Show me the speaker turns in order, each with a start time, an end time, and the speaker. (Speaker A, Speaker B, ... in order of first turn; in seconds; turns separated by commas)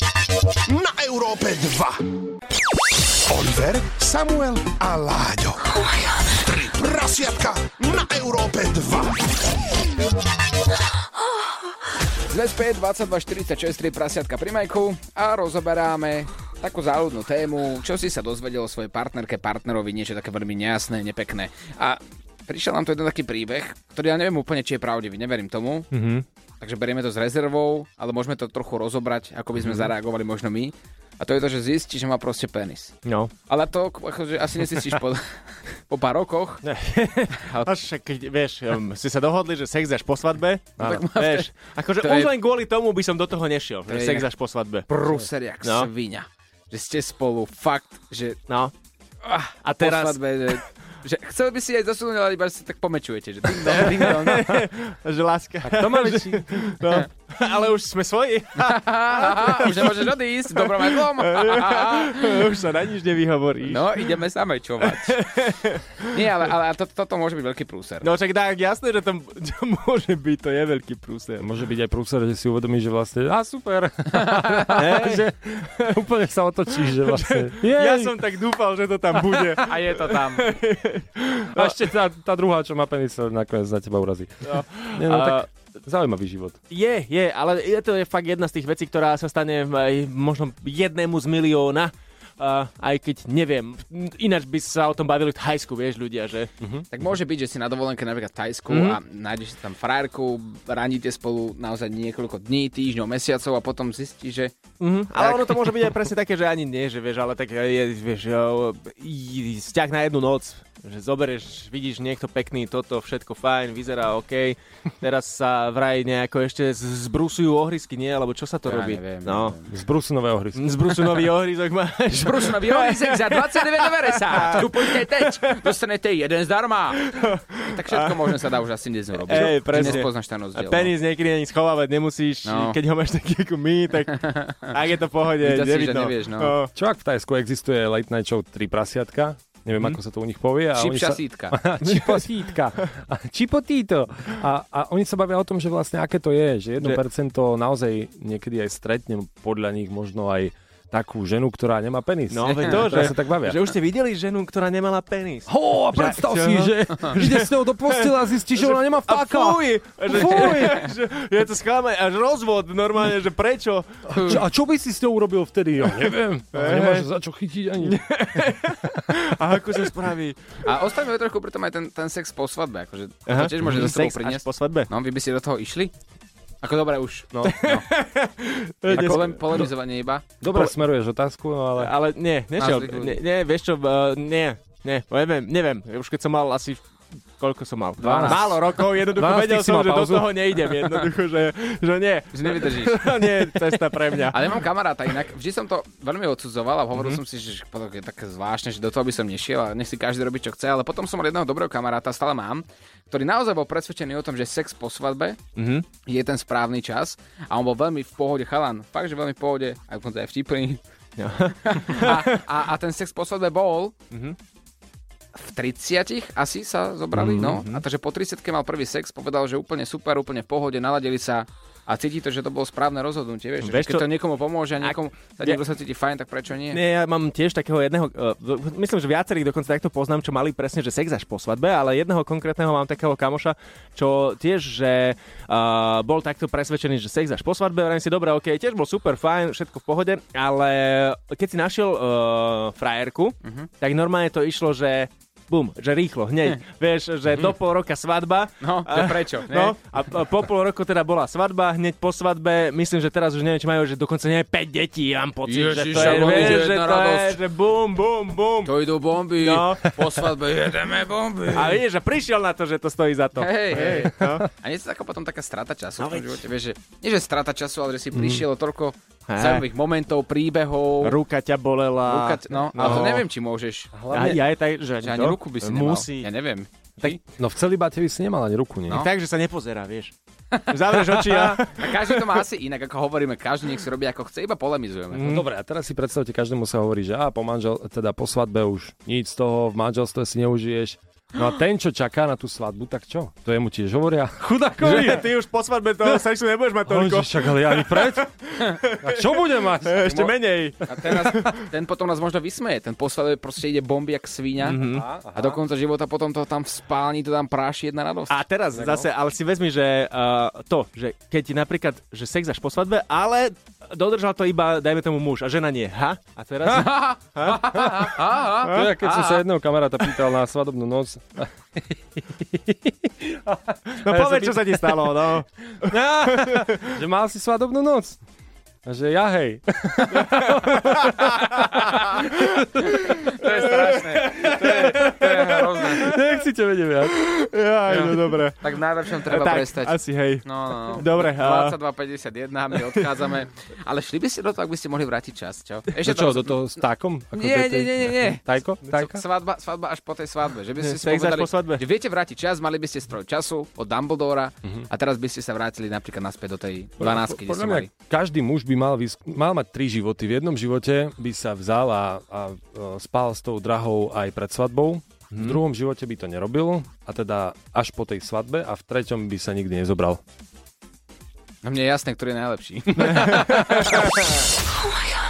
Speaker A: 0.7-2.0, Speaker A: 3.3-9.3, Speaker B: 12.3-25.9, Speaker C: 25.9-26.2, Speaker B: 26.6-33.0, Speaker C: 29.6-29.9, Speaker C: 33.0-33.3, Speaker B: 33.5-35.3, Speaker B: 35.9-36.6, Speaker C: 36.6-44.9, Speaker B: 37.4-37.7, Speaker D: 40.8-41.0, Speaker B: 40.8-42.3, Speaker B: 43.9-44.3, Speaker B: 44.9-48.4, Speaker C: 45.6-45.9, Speaker C: 48.5-48.7, Speaker B: 49.2-54.6, Speaker C: 49.6-50.2, Speaker C: 53.5-64.1, Speaker D: 55.6-56.8, Speaker B: 58.6-62.5, Speaker B: 63.6-65.2, Speaker C: 64.8-66.0, Speaker B: 66.1-68.1, Speaker C: 68.0-71.5, Speaker D: 71.4-78.1, Speaker B: 74.2-74.8, Speaker C: 74.8-76.0, Speaker C: 76.9-81.8, Speaker B: 79.6-80.5, Speaker D: 81.5-86.6, Speaker C: 84.5-85.5, Speaker C: 86.7-96.5, Speaker D: 96.6-96.9, Speaker B: 96.9-104.5, Speaker C: 98.7-99.0, Speaker C: 104.8-119.5, Speaker B: 105.2-105.8, Speaker B: 118.7-119.7, Speaker D: 119.7-121.3, Speaker C: 120.6-125.6, Speaker B: 122.2-127.0, Speaker C: 127.0-128.4, Speaker B: 127.7-130.9, Speaker C: 129.3-136.7, Speaker D: 129.3-130.1, Speaker B: 132.4-132.8, Speaker B: 134.1-134.8, Speaker B: 135.4-136.5, Speaker D: 136.8-153.7, Speaker B: 140.8-141.6, Speaker C: 141.8-142.9, Speaker C: 152.3-164.2, Speaker B: 152.5-152.9, Speaker D: 155.5-160.9, Speaker D: 164.1-169.3, Speaker B: 164.2-164.4, Speaker C: 166.6-167.1, Speaker C: 167.8-170.6, Speaker B: 170.6-175.9, Speaker C: 173.3-174.9, Speaker B: 176.6-177.9, Speaker D: 177.3-177.6, Speaker C: 177.5-179.7, Speaker B: 178.9-180.3, Speaker D: 180.4-182.0, Speaker C: 181.8-186.9, Speaker B: 182.6-183.2, Speaker C: 187.4-194.7, Speaker B: 188.0-188.6, Speaker D: 188.0-191.1, Speaker B: 192.3-193.7, Speaker B: 194.3-205.4, Speaker C: 196.9-197.2, Speaker C: 205.6-205.9, Speaker B: 206.1-210.8, Speaker C: 211.2-212.4, Speaker B: 211.6-213.9, Speaker C: 214.1-214.4, Speaker B: 215.3-226.8, Speaker C: 217.1-217.8, Speaker C: 223.6-224.1, Speaker C: 224.8-225.6, Speaker C: 226.7-258.7, Speaker B: 243.4-243.7, Speaker B: 248.6-249.8, Speaker B: 255.4-257.4, Speaker D: 255.9-256.7, Speaker B: 258.6-261.8, Speaker C: 259.4-260.0, Speaker C: 261.5-264.5, Speaker B: 263.4-271.2, Speaker D: 263.8-264.4, Speaker C: 266.0-266.4, Speaker D: 268.1-268.4, Speaker C: 269.3-269.7, Speaker C: 271.0-273.3, Speaker B: 272.1-274.4, Speaker D: 273.9-274.4, Speaker C: 274.1-276.3, Speaker B: 275.0-277.2, Speaker D: 277.4-279.1, Speaker C: 278.9-280.1, Speaker B: 280.5-285.4, Speaker C: 280.7-282.4, Speaker C: 285.1-285.5, Speaker D: 285.2-295.3, Speaker C: 294.8-301.6, Speaker D: 296.8-298.3, Speaker D: 298.9-300.3, Speaker B: 300.0-304.8, Speaker C: 304.6-305.1, Speaker D: 304.8-305.6, Speaker B: 305.3-309.1, Speaker C: 308.3-317.8, Speaker B: 316.6-319.4, Speaker D: 318.6-325.3, Speaker C: 318.6-318.9, Speaker C: 324.0-326.9, Speaker D: 325.8-328.2, Speaker D: 328.9-333.7, Speaker B: 331.6-332.2, Speaker B: 332.8-336.2, Speaker C: 333.5-335.6, Speaker D: 334.2-337.2, Speaker C: 337.1-341.8, Speaker B: 337.9-346.8, Speaker D: 345.9-349.2, Speaker B: 347.3-357.9, Speaker C: 350.8-351.8, Speaker D: 357.0-370.2, Speaker C: 365.3-365.6, Speaker B: 371.6-374.1, Speaker C: 373.1-374.3